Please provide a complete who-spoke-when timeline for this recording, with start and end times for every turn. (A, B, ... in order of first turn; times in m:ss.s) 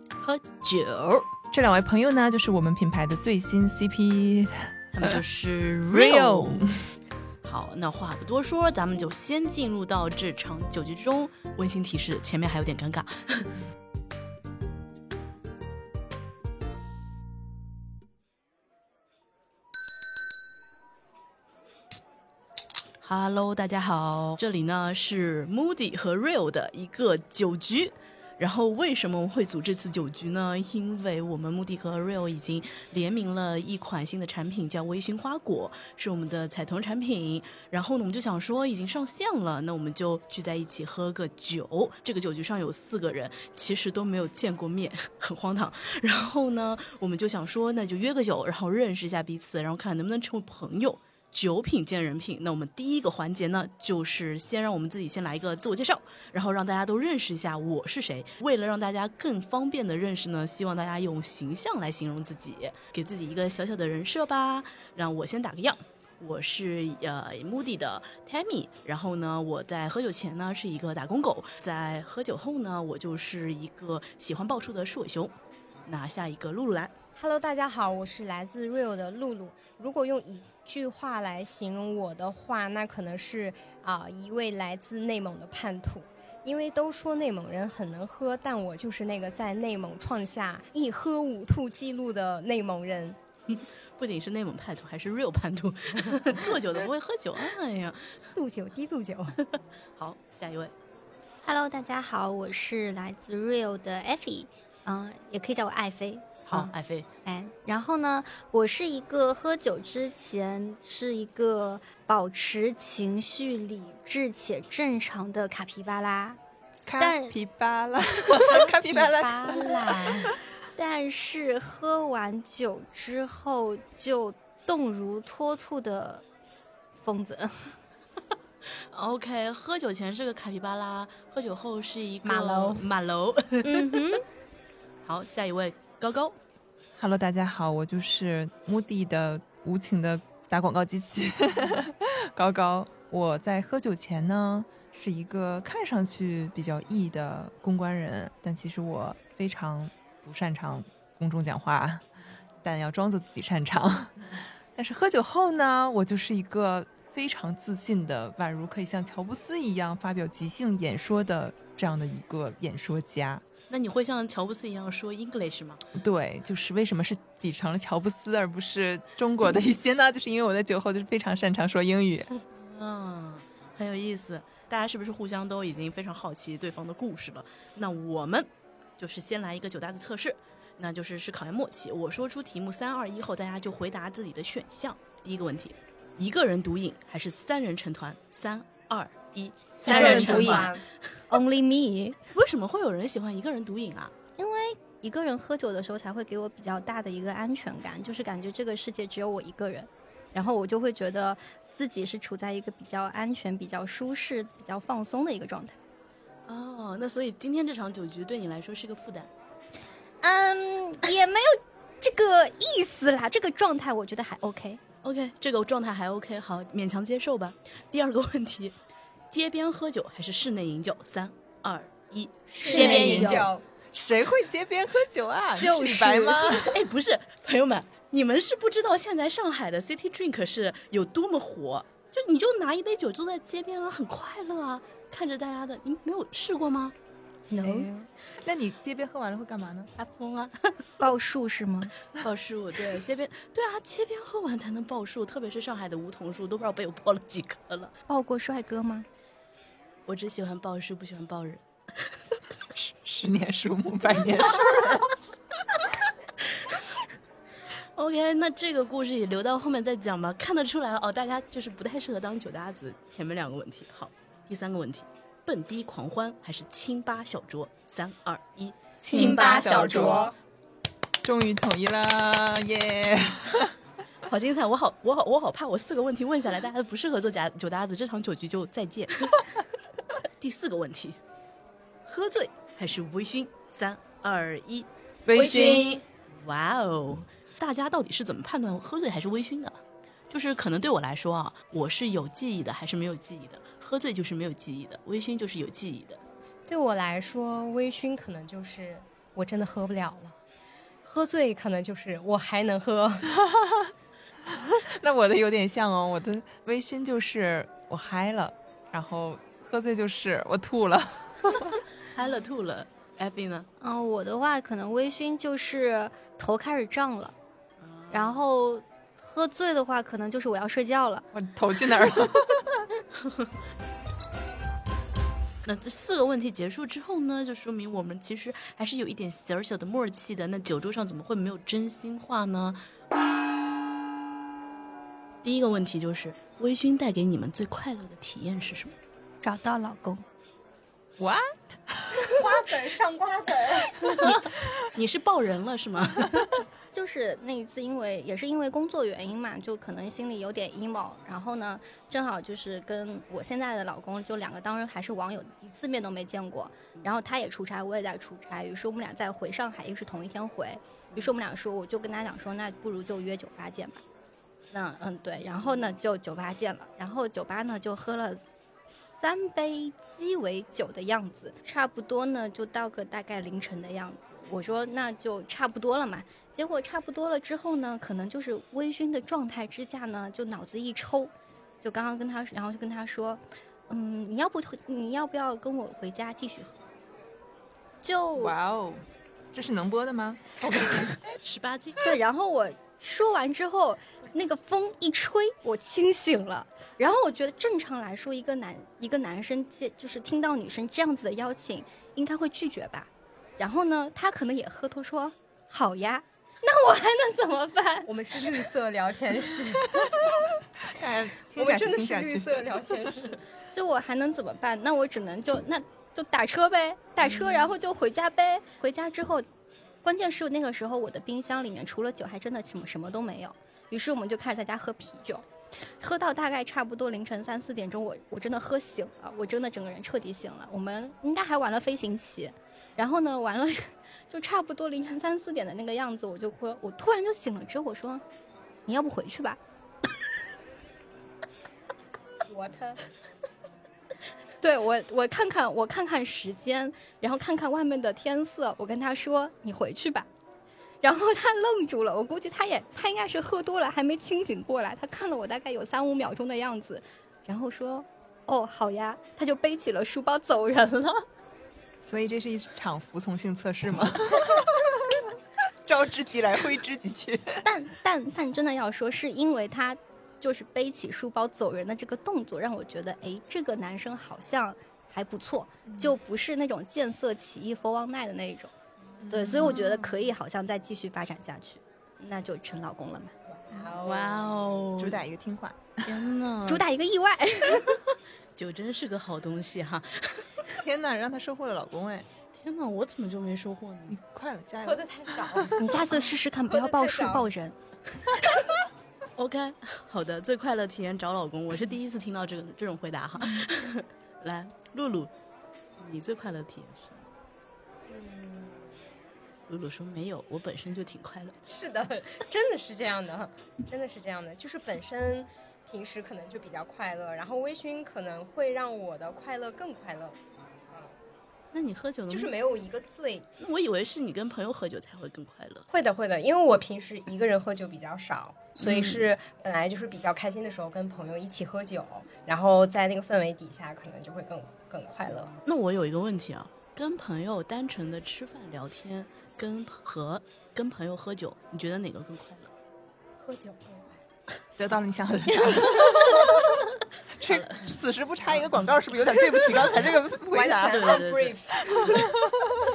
0:00.2-0:01.3 A
0:01.5-0:05.2 B
0:04.9-0:06.7 A
0:05.9-0:06.8 B
0:07.4-0:13.5 A
0:23.0-1:15.3 A
1:15.9-1:16.9 A
1:17.2-1:33.2 C
1:33.5-1:38.2 A
1:38.4-1:39.4 C
1:40.0-1:40.7 A
1:41.4-1:46.7 D
1:46.5-1:47.1 A
1:47.2-1:56.4 D
1:56.9-2:00.3 B
1:57.0-1:57.4 D
1:58.4-2:00.4 C
2:00.8-2:06.2 D
2:07.0-2:07.7 D
2:08.9-2:14.0 A
2:12.2-2:12.6 D
2:13.6-2:14.2 D
2:15.0-2:16.4 A
2:16.9-2:32.1 B
2:32.6-2:43.4 B
2:43.7-2:45.8 A
2:45.9-2:52.3 B
2:52.6-3:10.8 A
3:09.8-3:10.8 C
3:09.9-3:10.7 D
3:11.3-3:12.2 D
3:12.3-3:14.1 A
3:14.4-3:25.8 D
3:26.5-3:29.3 A
3:30.2-3:34.8 D
3:35.0-3:38.8 A
3:39.3-3:43.4 A
3:42.5-3:43.5 D
3:42.6-3:43.6 C
3:42.7-3:46.8 B
3:45.6-3:46.5 D
3:46.6-3:57.0 A
3:57.5-3:57.9 D
3:57.6-3:59.9 B
4:00.0-4:00.8 A
4:01.0-4:02.0 D
4:02.2-4:07.9 A
4:08.1-4:09.1 D
4:10.1-4:11.6 A
4:12.7-4:15.2 B
4:18.0-4:30.3 A
4:29.0-4:30.3 B
4:29.1-4:30.4 C
4:31.2-4:33.7 B
4:34.3-4:39.4 A
4:40.4-4:41.2 A
4:42.1-4:49.8 A
4:45.3-4:46.0 B
4:50.3-4:56.2 A
4:56.7-5:00.4 C
5:01.0-5:03.3 C
5:03.4-5:03.9 B
5:04.5-5:11.8 B
5:12.1-5:13.7 A
5:13.8-5:17.4 D
5:17.8-5:18.4 A
5:18.1-5:21.3 D
5:21.3-5:22.8 B
5:23.2-5:23.5 A
5:25.6-5:32.8 A
5:35.4-5:39.0 A
5:39.4-5:40.2 D
5:41.2-5:42.3 B
5:42.3-5:44.3 C
5:44.2-5:46.5 A
5:46.9-6:04.0 D
6:04.7-6:08.4 D
6:09.2-6:26.8 D
6:28.0-6:28.6 D
6:28.4-6:31.2 B
6:31.4-6:32.0 A
6:32.0-6:48.4 D
6:48.1-6:50.2 C
6:50.8-6:52.8 B
6:51.6-6:53.4 C
6:53.7-6:59.5 D
7:00.0-7:05.5 D
7:06.0-7:18.2 D
7:18.9-7:19.6 D
7:22.5-7:23.0 C
7:24.6-7:30.3 D
7:31.0-7:41.2 D
7:42.0-7:45.2 B
7:45.9-7:47.6 B
7:47.6-7:58.7 D
7:55.9-7:56.1 B
7:59.2-8:00.2 A
7:59.2-7:59.8 B
7:59.3-8:03.3 D
8:03.5-8:04.9 C
8:03.9-8:05.2 A
8:05.0-8:06.2 B
8:06.1-8:06.8 A
8:06.7-8:07.9 D
8:08.6-8:10.7 A
8:10.7-8:12.3 B
8:12.5-8:14.2 A
8:14.1-8:15.8 B
8:14.8-8:17.5 C
8:15.8-8:17.8 D
8:19.4-8:25.3 A
8:26.0-8:27.2 A
8:28.1-8:29.0 C
8:29.7-8:31.6 A
8:31.7-8:40.4 C
8:40.9-8:41.2 C
8:41.7-8:42.6 A
8:42.3-8:43.5 C
8:43.6-8:45.9 A
8:45.9-8:55.5 C
8:48.8-8:49.3 A
8:55.6-9:02.7 A
9:03.4-9:04.2 C
9:04.8-9:11.2 B
9:05.9-9:06.2 D
9:07.4-9:07.9 A
9:10.5-9:12.2 C
9:10.9-9:12.3 A
9:11.9-9:12.5 B